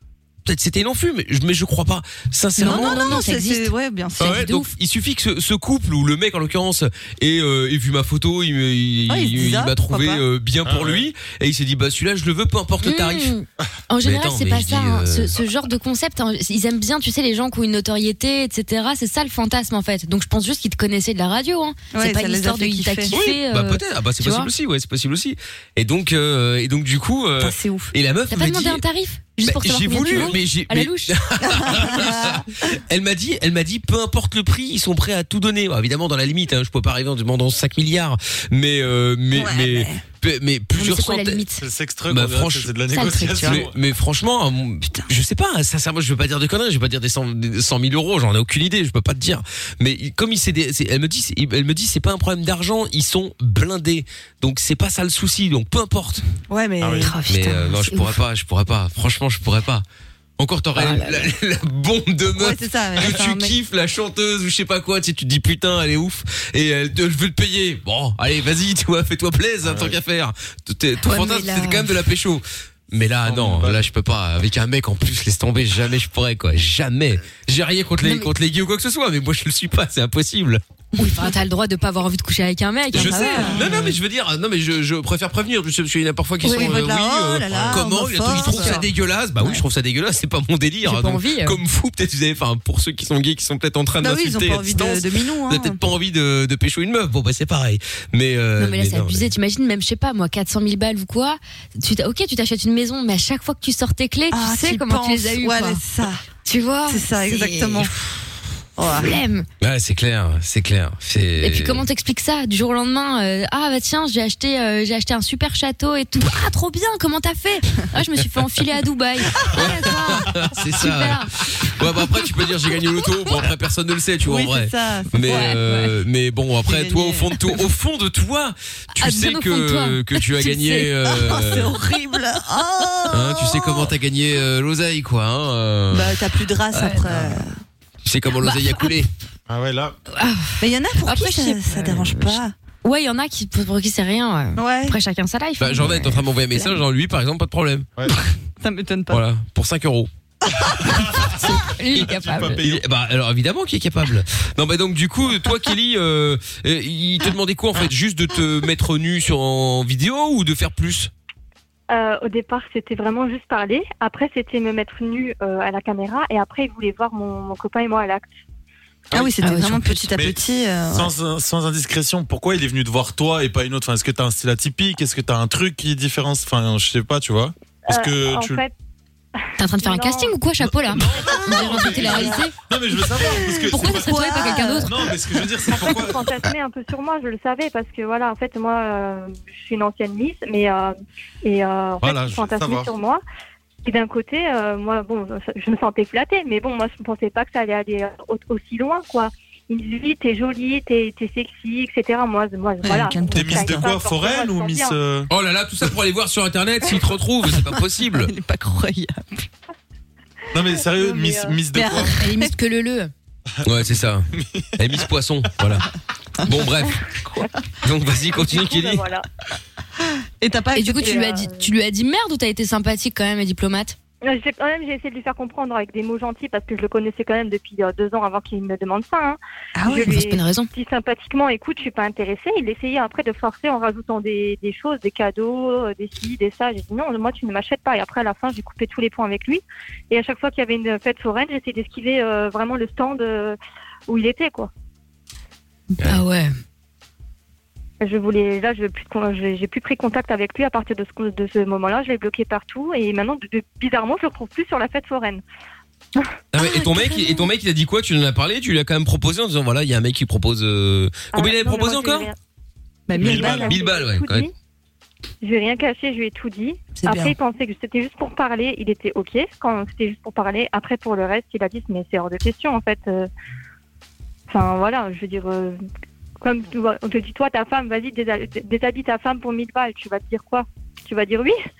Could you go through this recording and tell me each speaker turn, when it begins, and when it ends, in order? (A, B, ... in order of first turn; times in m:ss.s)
0:00.4-0:03.2 A
0:02.6-0:04.7 B
0:02.6-0:04.4 C
0:04.2-0:13.3 A
0:09.1-0:10.2 C
0:10.6-0:11.0 D
0:12.8-0:24.5 B
0:14.0-0:15.3 A
0:21.9-0:23.1 C
0:23.1-0:28.8 A
0:27.4-0:27.9 C
0:28.3-0:31.1 B
0:29.4-0:41.4 A
0:31.4-0:32.5 C
0:39.3-0:40.0 C
0:40.8-0:41.6 B
0:41.6-0:43.7 D
0:42.1-0:42.7 A
0:42.9-0:43.6 B
0:43.2-0:43.5 C
0:43.4-0:56.2 A
0:56.5-0:57.1 C
0:56.8-0:57.1 D
0:57.0-0:58.2 B
0:57.2-0:59.8 A
1:00.4-1:20.6 A
1:00.8-1:01.3 B
1:02.3-1:03.6 C
1:09.6-1:10.0 D
1:11.0-1:11.9 B
1:13.2-1:13.8 D
1:18.0-1:18.3 B
1:21.0-1:23.6 B
1:22.9-1:39.3 A
1:22.9-1:23.9 C
1:26.4-1:28.8 C
1:27.5-1:27.8 D
1:28.3-1:28.8 B
1:30.8-1:31.6 B
1:34.0-1:35.8 C
1:38.6-1:45.8 B
1:44.3-1:46.2 C
1:46.4-1:47.9 B
1:46.9-1:47.9 C
1:48.8-1:49.2 C
1:48.9-1:49.5 B
1:49.6-1:51.8 A
1:51.4-2:01.3 B
1:59.4-2:00.3 C
1:59.5-2:11.7 A
2:04.2-2:05.5 C
2:05.2-2:05.9 B
2:06.6-2:07.4 C
2:09.0-2:11.0 B
2:11.2-2:13.9 C
2:13.1-2:16.2 A
2:15.9-2:17.6 C
2:16.7-2:17.0 B
2:18.0-2:19.1 A
2:18.4-2:18.9 B
2:19.5-2:20.0 D
2:20.1-2:26.7 B
2:20.6-2:22.5 C
2:24.6-2:25.0 C
2:25.6-2:27.9 A
2:28.6-2:29.2 C
2:29.1-2:30.1 A
2:30.7-2:32.8 D
2:31.3-2:32.6 B
2:32.6-2:41.1 A
2:41.9-2:48.3 E
2:49.1-2:51.1 C
2:49.4-2:50.1 B
2:50.1-2:58.6 D
2:57.9-2:58.7 E
2:59.6-3:02.5 B
2:59.6-3:00.3 E
3:00.6-3:04.3 D
3:01.6-3:02.3 C
3:03.1-3:05.2 C
3:03.7-3:04.9 B
3:04.8-3:06.4 D
3:05.7-3:13.2 E
3:12.0-3:12.9 D
3:13.8-3:25.0 E
3:22.8-3:23.9 C
3:23.3-3:25.3 D
3:25.3-3:28.3 A
3:27.6-3:29.5 C
3:30.5-3:32.1 D
3:31.0-3:32.5 C
3:32.2-3:33.1 B
3:33.6-3:35.8 A
3:34.3-3:34.7 D
3:36.4-3:37.0 A
3:36.5-3:37.5 C
3:37.8-3:39.0 A
3:38.3-3:39.2 E
3:40.4-3:41.2 C
3:40.7-3:43.9 B
3:41.0-3:41.6 E
3:44.2-4:04.7 E
3:49.8-3:50.2 C
3:49.9-3:50.7 B
4:06.0-4:06.5 B
4:08.0-4:15.4 E
4:16.5-4:22.3 A
4:16.6-4:17.4 B
4:21.3-4:22.3 E
4:23.1-4:23.8 C
4:23.2-4:23.7 D
4:23.2-4:24.5 E
4:23.3-4:24.5 A
4:25.4-4:33.3 E
4:27.0-4:27.3 C
4:34.5-4:35.8 E
4:36.4-4:41.6 E